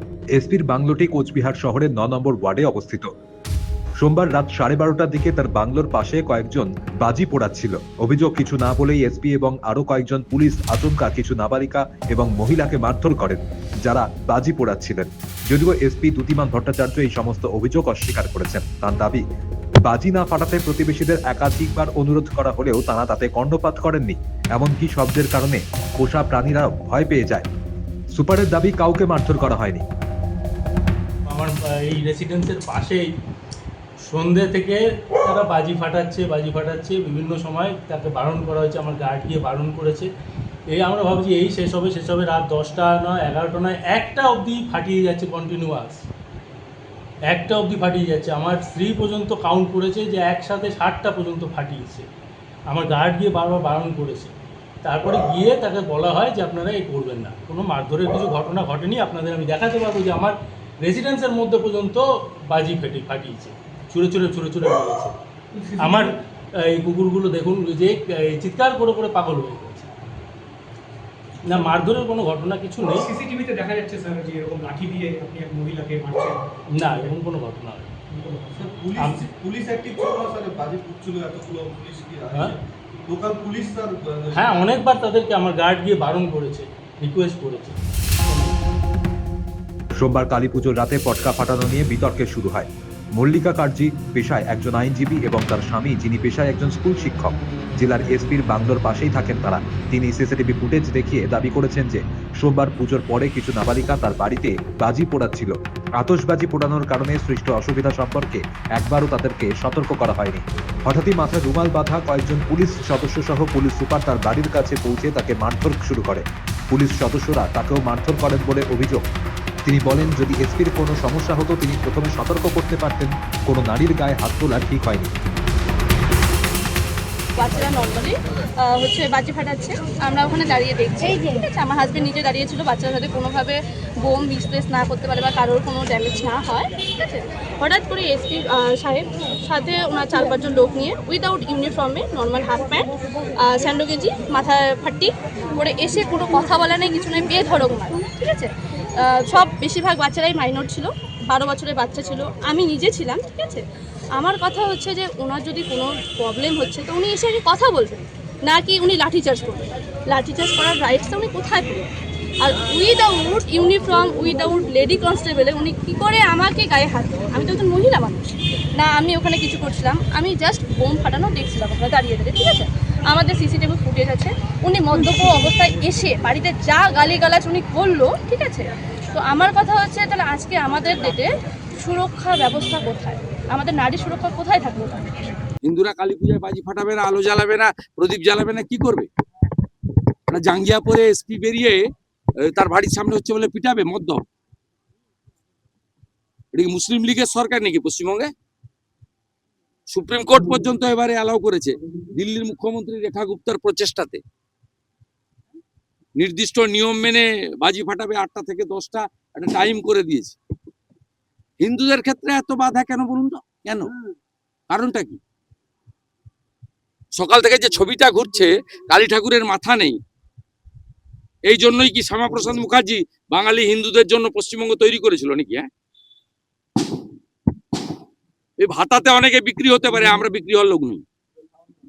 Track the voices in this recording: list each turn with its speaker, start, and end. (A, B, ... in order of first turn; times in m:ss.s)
0:00.4-0:03.1 A
0:04.0-0:19.2 A
0:19.8-0:27.5 A
0:28.1-0:29.8 A
0:31.3-0:33.1 B
0:34.0-0:40.1 B
0:40.7-0:46.1 B
0:47.3-0:52.1 B
0:52.7-1:05.1 B
1:05.5-1:06.0 C
1:05.8-1:09.9 B
1:11.5-1:13.1 B
1:13.0-1:16.6 C
1:16.7-1:17.9 B
1:18.2-1:18.5 C
1:18.6-1:24.5 D
1:24.3-1:27.8 B
1:30.0-1:59.0 A
1:59.6-2:05.1 A
2:07.4-2:33.6 E
2:34.2-2:41.9 E
2:42.4-3:05.3 E
3:05.6-3:09.1 F
3:10.3-3:11.8 F
3:12.4-3:14.2 F
3:16.5-3:18.3 F
3:19.9-3:24.2 F
3:26.2-3:30.4 F
3:31.6-3:33.9 F
3:34.7-3:35.2 F
3:37.1-3:40.0 F
3:41.5-3:45.7 F
3:48.6-3:51.0 F